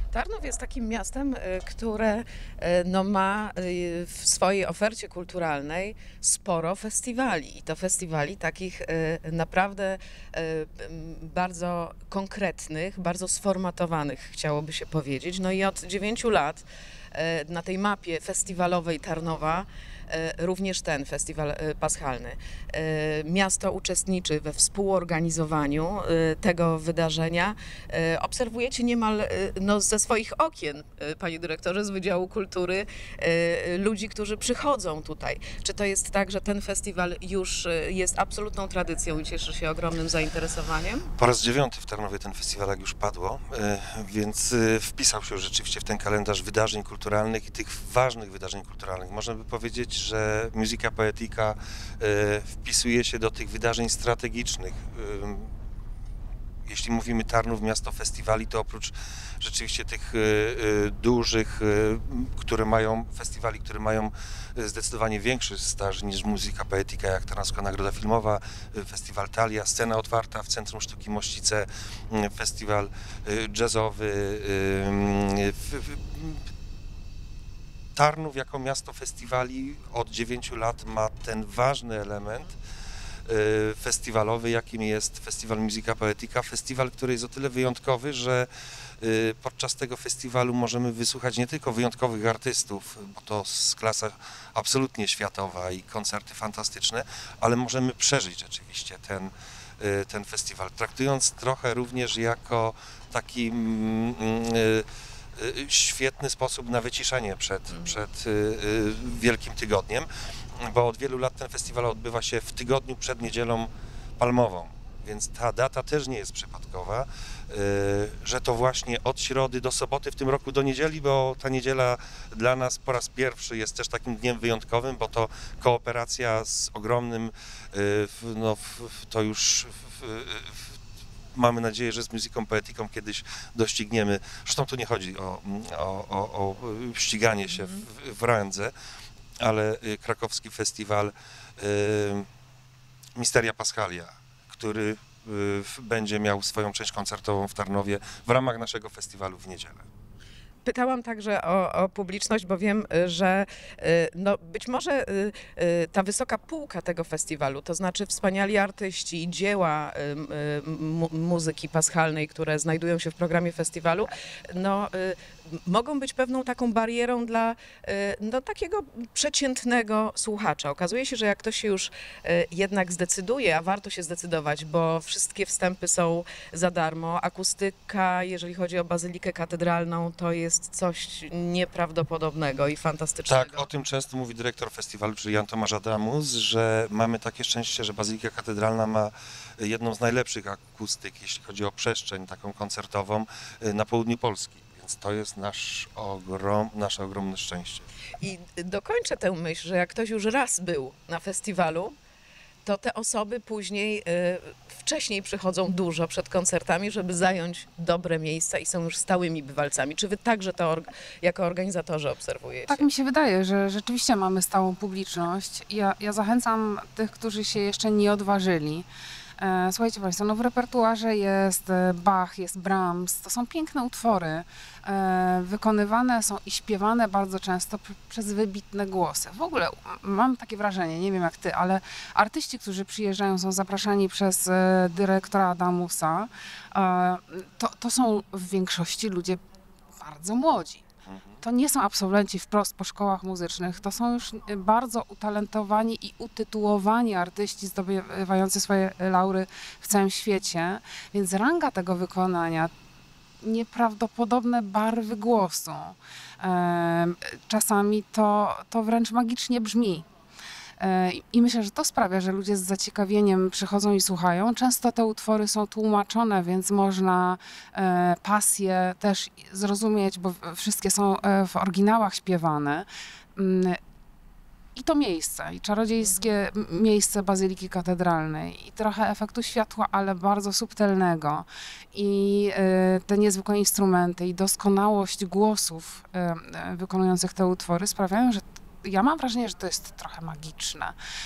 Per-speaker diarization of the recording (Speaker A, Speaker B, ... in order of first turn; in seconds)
Speaker A: 0.1-41.1, 107.7-108.0, 137.5-137.8, 150.6-183.7, 198.2-201.9, 202.6-212.9
Speaker B: 41.2-55.5, 56.7-76.4, 78.0-82.6, 83.3-88.5, 89.0-104.9, 105.4-110.1, 110.6-130.7, 131.3-138.7, 139.4-142.2, 143.2-149.8, 183.3-197.9, 241.1-241.4
Speaker C: 212.7-218.9, 219.6-239.4, 240.0-240.8, 241.4-252.7, 253.4-260.1, 260.8-272.9, 273.4-273.8, 274.8-290.9